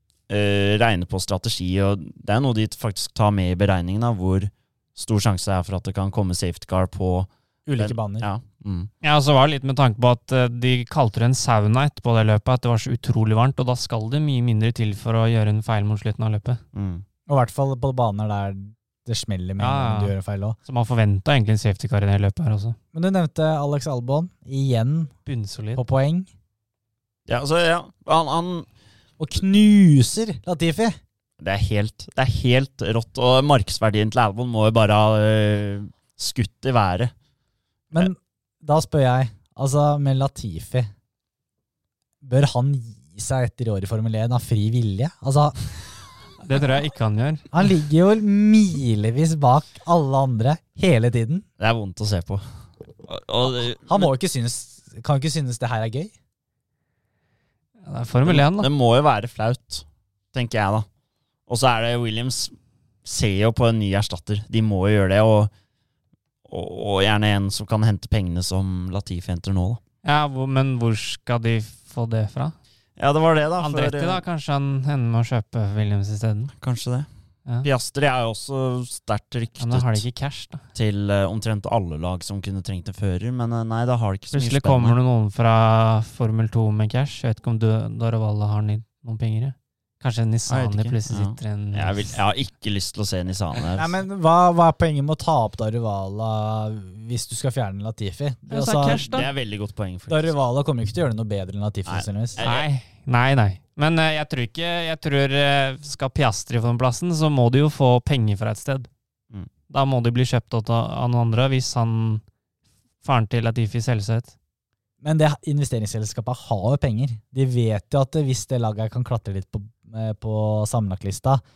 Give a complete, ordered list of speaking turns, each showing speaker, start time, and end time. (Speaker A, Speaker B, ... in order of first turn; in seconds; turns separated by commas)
Speaker A: 0.3-8.9, Speaker B: 7.7-8.3, Speaker C: 9.0-16.6, Speaker A: 16.7-17.0, Speaker B: 17.3-20.6, Speaker C: 19.6-20.1, Speaker C: 20.6-22.8, Speaker B: 22.9-25.1, Speaker C: 25.2-25.8, Speaker B: 25.8-26.3, Speaker A: 27.3-28.7, Speaker B: 29.2-31.0, Speaker A: 31.4-37.1, Speaker B: 37.9-40.9, Speaker B: 42.2-45.6, Speaker C: 46.4-47.5, Speaker B: 47.5-51.4, Speaker A: 51.6-52.4, Speaker A: 53.1-54.1, Speaker B: 53.9-56.1, Speaker C: 57.8-58.7, Speaker A: 58.2-60.9, Speaker A: 61.5-62.5, Speaker A: 63.0-65.5, Speaker A: 66.5-69.8, Speaker C: 70.0-72.5, Speaker A: 73.0-74.2, Speaker C: 73.6-76.5, Speaker A: 76.6-77.1, Speaker A: 77.6-80.0, Speaker C: 79.6-80.6, Speaker A: 80.7-85.0, Speaker C: 84.3-92.2, Speaker A: 90.5-93.9, Speaker B: 93.8-99.1, Speaker C: 98.5-99.3, Speaker A: 98.8-100.3, Speaker B: 100.1-102.4, Speaker A: 101.8-102.7, Speaker C: 102.4-108.9, Speaker C: 109.7-112.2, Speaker C: 113.0-114.3, Speaker B: 115.0-121.4